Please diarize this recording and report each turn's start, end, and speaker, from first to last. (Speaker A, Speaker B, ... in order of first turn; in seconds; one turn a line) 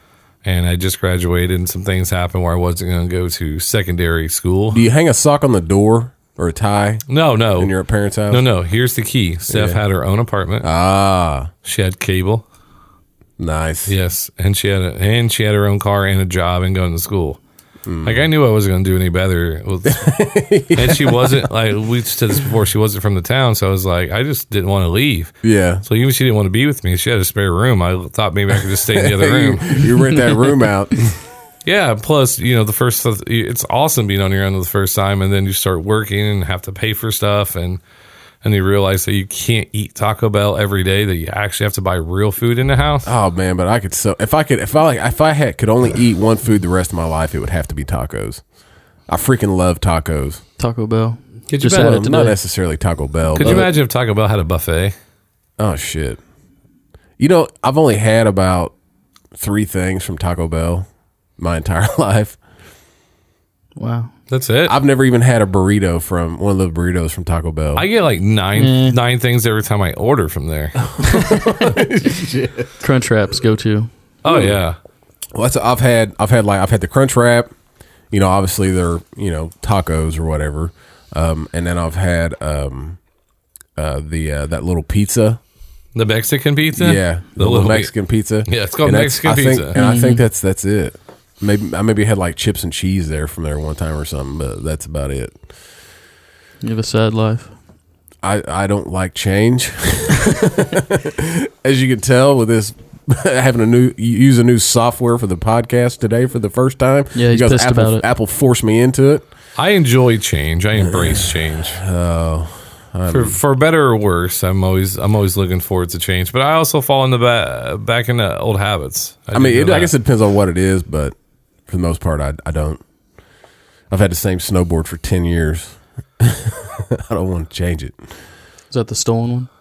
Speaker A: 0.4-4.8
Speaker B: 4.7-7.0
Speaker A: 7.1-7.7
Speaker B: 7.6-8.4
Speaker A: 8.3-10.7
Speaker B: 9.5-9.8
Speaker B: 10.6-11.5
Speaker A: 11.6-12.4
Speaker B: 13.4-13.9
Speaker A: 13.9-17.4
Speaker B: 17.9-18.3
Speaker A: 18.0-20.2
Speaker B: 19.9-21.4
Speaker A: 20.7-29.9
Speaker B: 25.4-25.8
Speaker B: 28.9-31.1
Speaker A: 31.6-37.8
Speaker A: 38.4-43.1
Speaker B: 43.0-48.4
Speaker B: 49.1-50.4
Speaker C: 50.6-52.4
Speaker A: 51.5-52.0
Speaker B: 51.7-53.7
Speaker A: 53.4-55.0
Speaker C: 53.4-53.6
Speaker B: 55.6-56.2
Speaker B: 57.2-58.7
Speaker B: 59.4-60.9
Speaker B: 61.4-62.4
Speaker C: 63.8-64.1
Speaker A: 64.3-64.7
Speaker B: 64.7-67.8
Speaker A: 67.8-70.8
Speaker C: 68.6-69.0
Speaker B: 70.9-72.7
Speaker C: 72.8-73.9
Speaker A: 74.2-74.8
Speaker B: 74.3-74.6
Speaker B: 75.3-77.5
Speaker B: 78.1-83.0
Speaker B: 83.8-85.4
Speaker A: 86.0-87.9
Speaker B: 86.8-95.3
Speaker A: 88.5-89.8
Speaker C: 89.8-90.2
Speaker C: 96.6-97.5
Speaker B: 98.2-109.2
Speaker C: 107.2-108.0
Speaker A: 109.6-111.8
Speaker B: 111.7-113.4
Speaker A: 113.1-119.9
Speaker B: 119.3-121.2
Speaker B: 121.7-122.8
Speaker B: 123.9-128.0
Speaker C: 128.7-129.5